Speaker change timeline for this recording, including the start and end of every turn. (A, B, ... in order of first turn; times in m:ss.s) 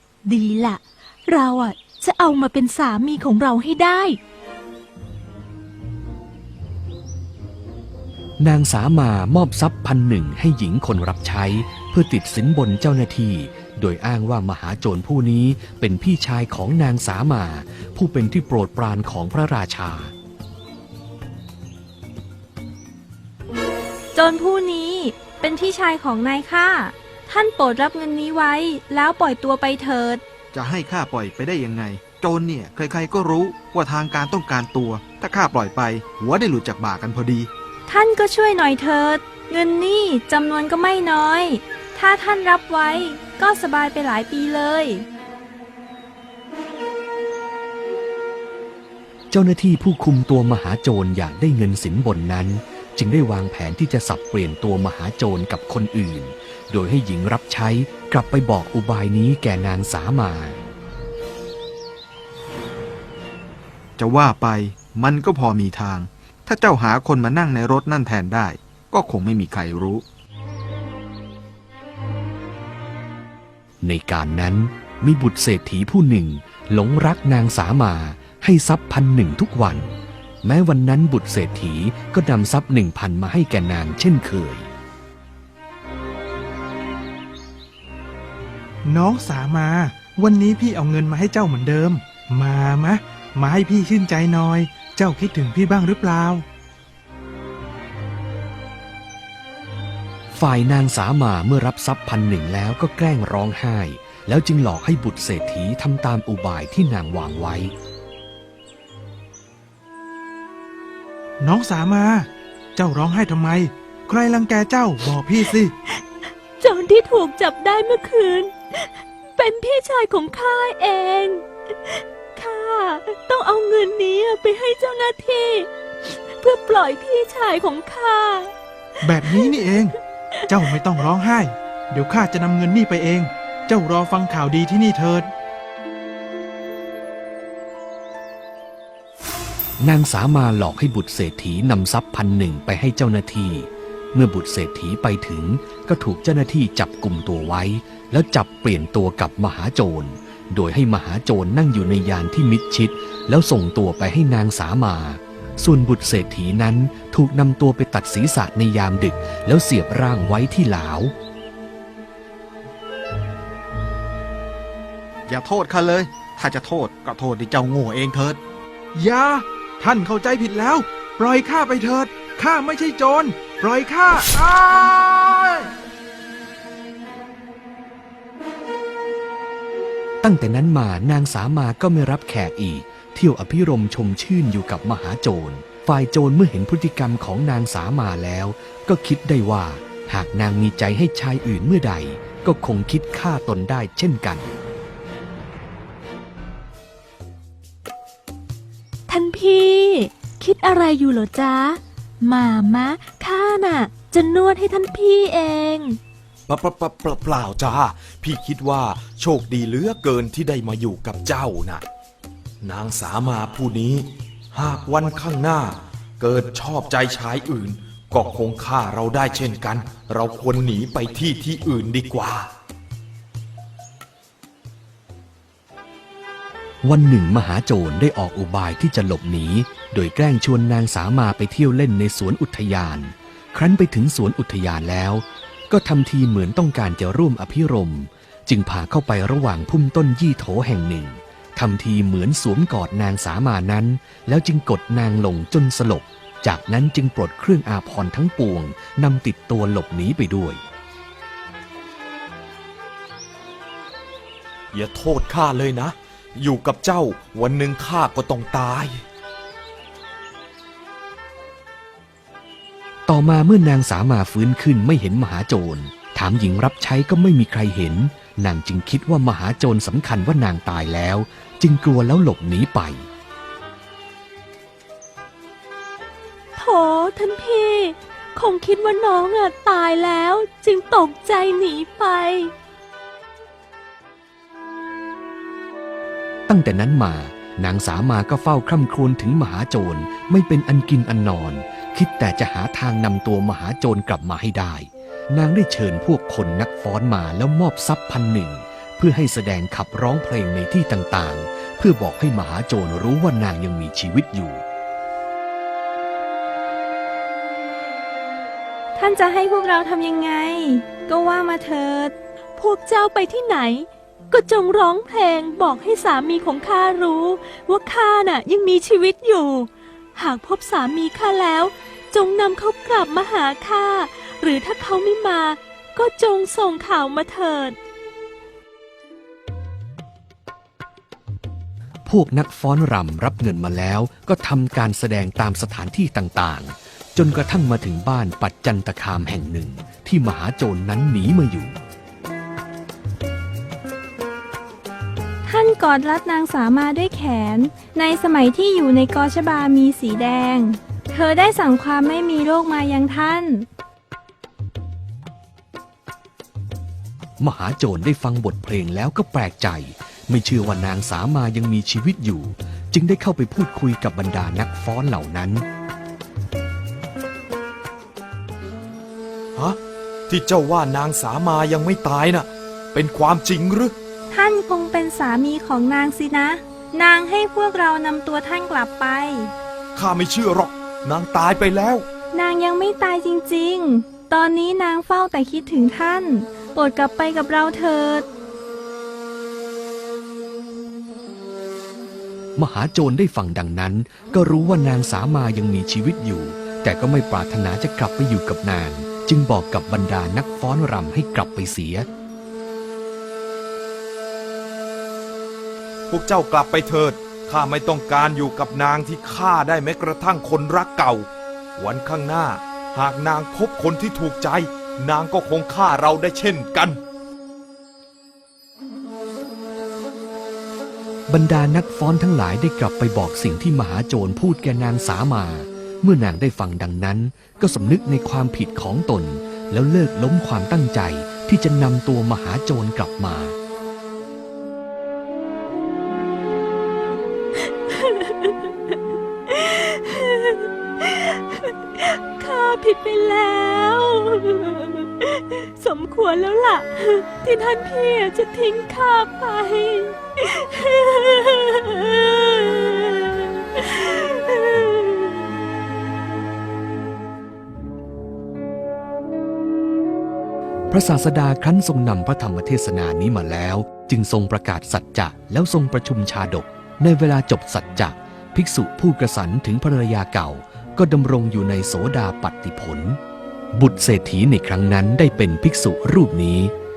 0:00.2-0:04.2 A
0:08.4-0:20.1 B
0:24.1-0:30.2 C
0:30.5-0:37.5 D
0:37.9-0:45.1 C
0:49.3-1:00.6 B
1:04.0-1:10.0 D
1:13.8-1:24.7 B
1:28.8-1:36.4 E
1:40.3-1:47.7 B
1:51.4-1:55.7 E
1:56.6-2:08.5 A
2:09.0-2:10.0 E
2:09.0-2:09.7 A
2:10.5-2:10.8 A
2:10.5-2:15.3 E
2:19.8-2:41.1 B
2:45.3-2:48.4 D
2:49.0-2:55.7 E
3:00.2-3:14.5 B
3:19.1-3:26.0 A
3:26.5-3:31.8 F
3:32.6-3:42.5 F
3:46.8-4:10.6 B
4:14.7-4:19.0 F
4:23.1-4:33.1 B
4:36.6-4:42.5 A
4:46.5-5:04.6 B
5:09.0-5:12.1 C
5:12.6-5:27.8 A
5:32.1-5:41.8 B
5:45.5-5:53.7 C
5:57.4-6:05.6 B
6:09.6-6:14.0 F
6:14.3-6:19.5 C
6:20.0-6:22.1 F
6:22.3-6:28.3 C
6:32.6-6:42.1 B
6:46.1-6:57.0 F
7:01.3-7:13.6 B
7:17.7-7:35.4 A
7:40.9-7:53.2 B
7:53.8-7:56.7 B